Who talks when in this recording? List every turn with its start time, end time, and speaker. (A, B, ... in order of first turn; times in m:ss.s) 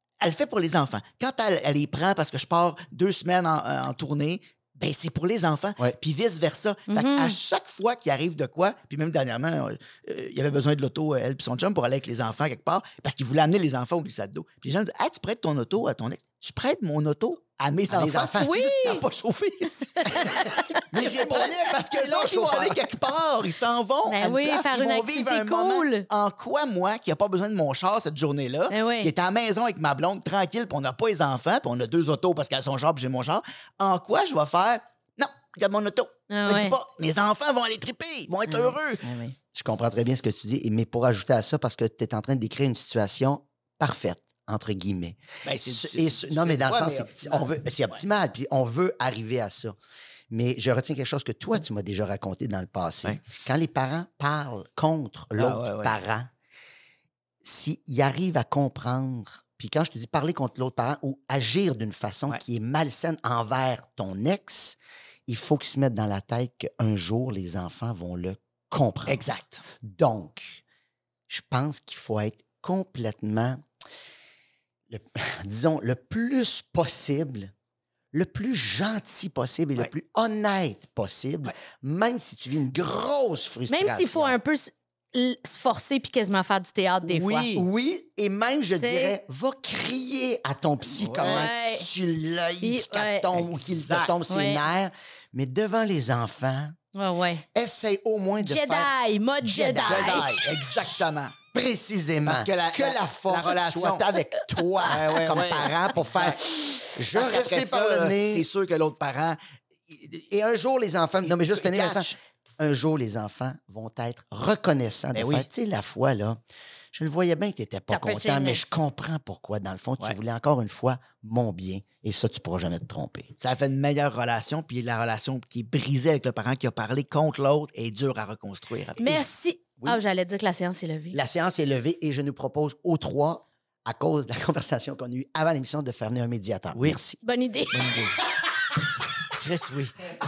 0:00.2-0:39.0 A
0:06.9-0:07.4 B
0:17.9-0:18.6 C
0:18.4-0:19.0 B
0:19.9-0:20.8 B
0:20.2-0:22.8 C
0:24.1-0:26.0 B
0:28.7-0:29.1 B
0:36.3-0:36.8 B
0:38.5-0:39.4 B
0:39.5-0:49.8 C
0:45.4-0:47.5 A
0:50.3-0:56.3 C
0:55.4-0:55.9 A
0:57.4-1:09.2 C
1:09.0-1:09.6 A
1:09.8-1:10.6 C
1:11.3-1:13.6 C
1:14.9-1:17.5 C
1:18.1-1:24.4 C
1:23.7-1:27.5 B
1:27.0-1:27.6 A
1:27.5-1:36.8 C
1:28.8-1:29.2 B
1:31.0-1:31.5 A
1:31.2-1:31.9 B
1:32.6-1:33.3 B
1:33.4-1:34.1 A
1:34.3-1:34.6 B
1:36.9-1:37.4 B
1:37.5-1:41.0 C
1:38.4-1:40.3 B
1:39.8-1:41.4 A
1:41.5-1:48.5 C
1:42.2-1:44.0 A
1:44.8-1:50.3 A
1:50.3-1:56.4 C
1:51.2-1:52.2 A
1:55.1-1:55.5 A
1:56.9-2:03.3 C
1:57.9-1:58.6 B
2:03.4-2:09.2 A
2:09.0-2:11.2 B
2:11.1-2:17.2 C
2:16.7-2:17.0 A
2:17.2-2:17.9 B
2:17.7-2:18.2 A
2:19.3-2:19.9 A